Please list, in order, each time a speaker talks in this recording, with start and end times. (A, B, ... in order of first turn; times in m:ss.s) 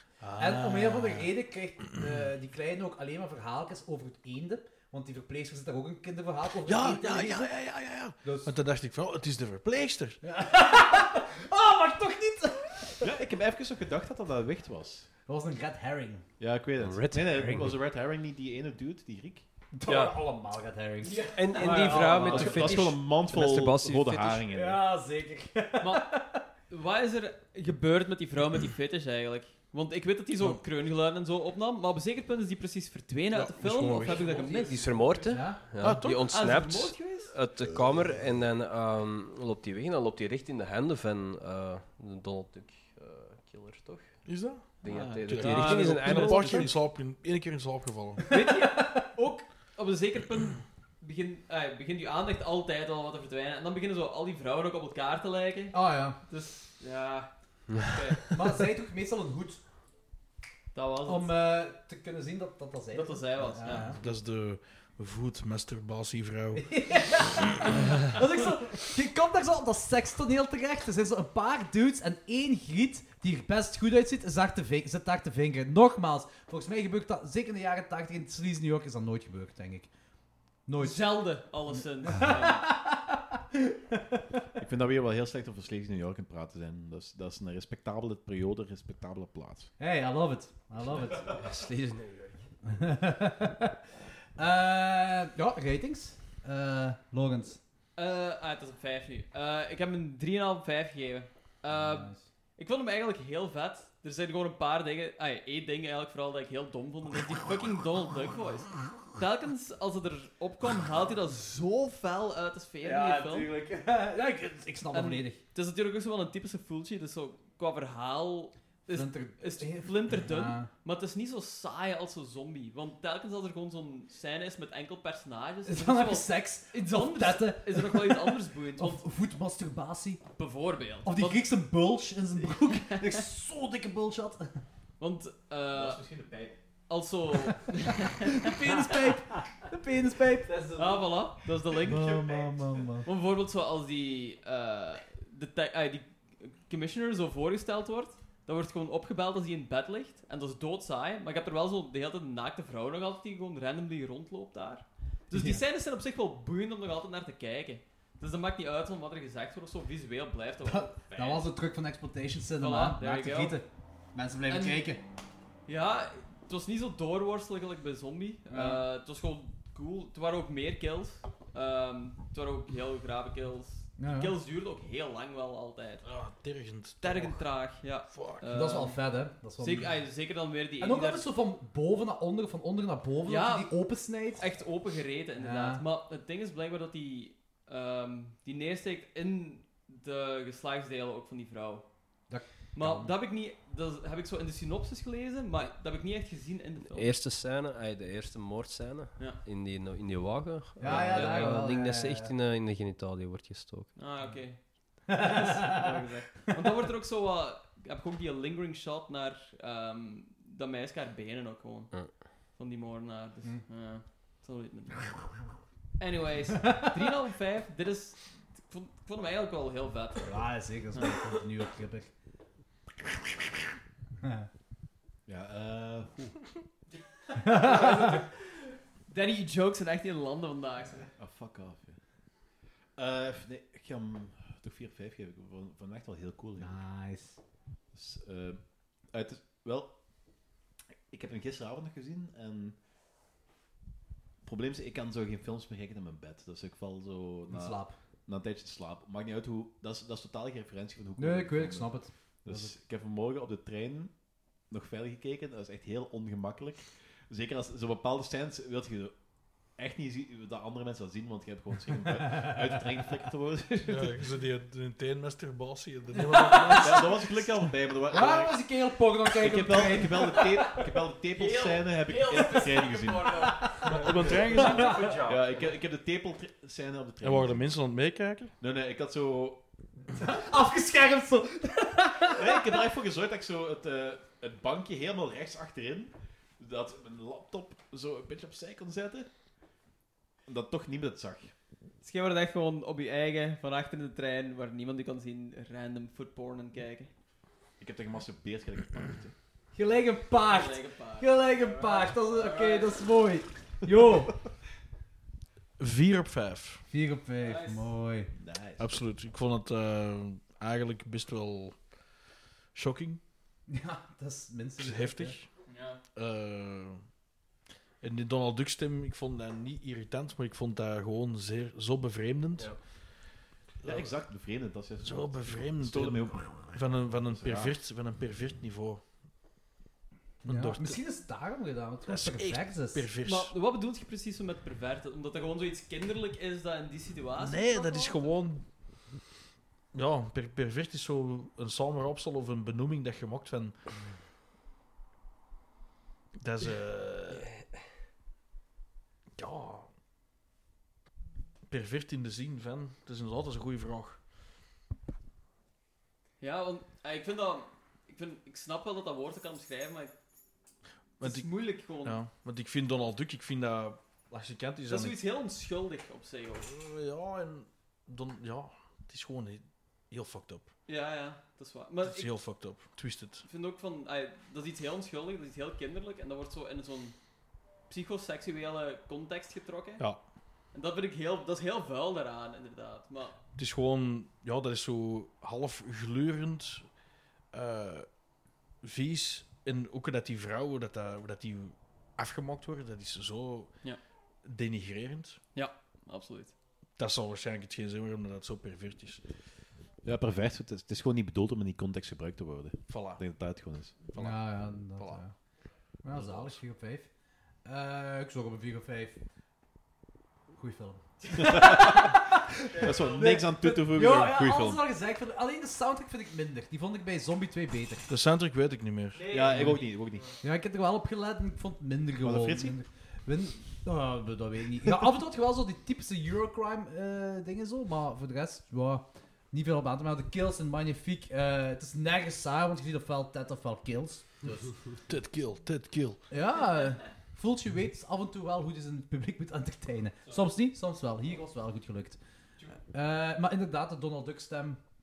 0:00.2-0:01.3 A
0:00.4-0:07.6 B
0:06.6-0:10.2 A
0:08.2-0:08.5 B
0:10.2-0:13.1 B
0:13.0-0:15.1 C
0:15.3-0:16.2 B
0:16.4-0:19.5 C
0:16.8-0:17.8 D
0:19.7-0:22.9 B
0:19.9-0:20.2 D
0:21.0-0:22.4 E
0:21.2-0:24.4 D
0:22.2-0:24.8 C
0:24.5-0:26.5 B
0:25.8-0:26.2 E
0:26.7-0:35.0 E
0:33.4-0:46.7 D
0:34.2-0:35.6 B
0:35.8-0:36.4 A
0:36.0-0:37.3 E
0:44.2-0:48.2 A
0:44.8-0:46.7 E
0:48.3-0:58.4 E
0:48.4-0:49.0 B
0:55.7-0:56.2 B
0:58.3-0:59.6 B
1:00.7-1:01.4 E
1:01.0-1:04.0 B
1:02.9-1:04.0 E
1:04.0-1:07.2 A
1:06.5-1:19.9 B
1:20.7-1:24.0 B
1:20.8-1:22.7 E
1:24.6-1:29.7 C
1:29.8-1:31.3 B
1:31.2-1:32.5 D
1:32.7-1:33.8 B
1:34.4-1:37.6 B
1:38.0-1:53.5 E
1:41.7-1:42.3 B
1:52.8-1:55.4 B
1:54.9-2:09.0 E
1:58.9-2:00.7 B
2:05.7-2:10.3 B
2:10.4-2:11.5 E
2:11.0-2:14.6 B
2:12.5-2:13.2 E
2:15.0-2:16.0 E
2:15.7-2:16.6 C
2:16.9-2:19.1 E
2:18.4-2:20.5 B
2:20.5-2:21.3 C
2:20.8-2:22.1 E
2:21.8-2:23.1 B
2:21.9-2:23.0 C
2:23.0-2:41.5 E
2:35.3-2:35.6 B
2:40.6-2:45.0 B
2:42.6-2:43.6 E
2:44.5-2:44.9 E
2:45.7-2:56.0 E
2:48.5-2:48.8 B
2:54.0-2:54.4 B
2:56.0-2:58.5 A
2:57.0-3:01.3 E
2:58.5-3:00.0 B
3:00.8-3:04.4 B
3:03.2-3:17.1 E
3:05.4-3:05.8 B
3:12.3-3:13.1 B
3:16.9-3:24.0 D
3:20.8-3:22.3 B
3:21.1-3:21.6 E
3:24.0-3:35.2 E
3:25.1-3:25.4 B
3:36.0-3:41.4 E
3:40.3-3:42.1 B
3:45.3-3:46.4 C
3:47.3-3:48.4 E
3:47.4-3:48.2 B
3:49.1-3:51.1 E
3:51.2-3:52.0 C
3:53.0-3:56.8 C
3:56.6-3:57.4 B
3:57.9-4:00.0 C
4:01.1-4:02.8 C
4:04.4-4:24.2 C
4:07.5-4:08.0 B
4:11.2-4:12.8 B
4:23.9-4:27.2 A
4:26.8-4:33.9 C
4:28.1-4:30.8 B
4:31.3-4:34.0 E
4:33.4-4:33.7 B
4:33.8-4:35.4 A
4:34.6-4:35.1 B
4:35.2-4:37.8 C
4:37.2-4:38.5 A
4:38.6-4:39.6 C
4:40.2-4:42.6 B
4:42.3-4:49.3 C
4:50.5-4:51.5 C
4:52.0-4:57.1 E
4:57.8-4:59.4 C
4:59.7-5:04.4 B
5:00.4-5:03.3 E
5:05.8-5:06.8 A
5:06.9-5:08.3 B
5:07.4-5:07.9 E
5:08.4-5:09.0 C
5:08.8-5:11.9 A
5:12.7-5:13.2 A
5:13.7-5:15.4 B
5:14.8-5:15.5 A
5:15.7-5:16.0 E
5:16.1-5:17.0 A
5:18.0-5:22.8 A
5:23.8-5:24.1 A
5:23.8-5:27.8 C
5:25.0-5:29.0 A
5:30.4-5:33.0 B
5:30.5-5:31.0 A
5:32.1-5:33.5 A
5:33.2-5:38.3 E
5:37.4-5:38.6 A
5:39.9-5:43.8 A
5:46.4-5:47.5 A
5:49.4-5:49.9 A
5:51.7-5:54.2 A
5:56.4-6:00.1 E
6:01.2-6:05.2 A
6:01.2-6:02.2 E
6:04.9-6:06.7 E
6:06.6-6:10.7 A
6:10.9-6:12.4 E
6:12.0-6:13.5 A
6:13.4-6:17.2 E
6:17.9-6:23.4 E
6:23.6-6:27.0 A
6:27.5-6:28.2 A
6:28.8-6:33.8 A
6:34.4-6:35.4 A
6:35.6-6:36.5 E
6:37.0-6:39.3 A
6:40.0-6:44.0 C
6:42.9-6:43.2 A
6:44.0-6:45.3 A
6:44.2-6:45.4 B
6:46.0-6:47.1 B
6:46.1-6:46.6 A
6:47.6-6:49.2 B
6:50.6-6:58.1 B
6:51.4-6:52.1 C
6:52.8-6:53.3 E
6:52.8-6:54.8 C
6:58.1-6:59.2 A
6:59.2-6:59.8 E
6:59.3-7:00.3 C
6:59.5-6:59.8 B
7:00.4-7:14.8 B
7:02.2-7:02.8 C
7:15.1-7:16.2 A
7:16.3-7:22.2 B
7:22.9-7:24.8 B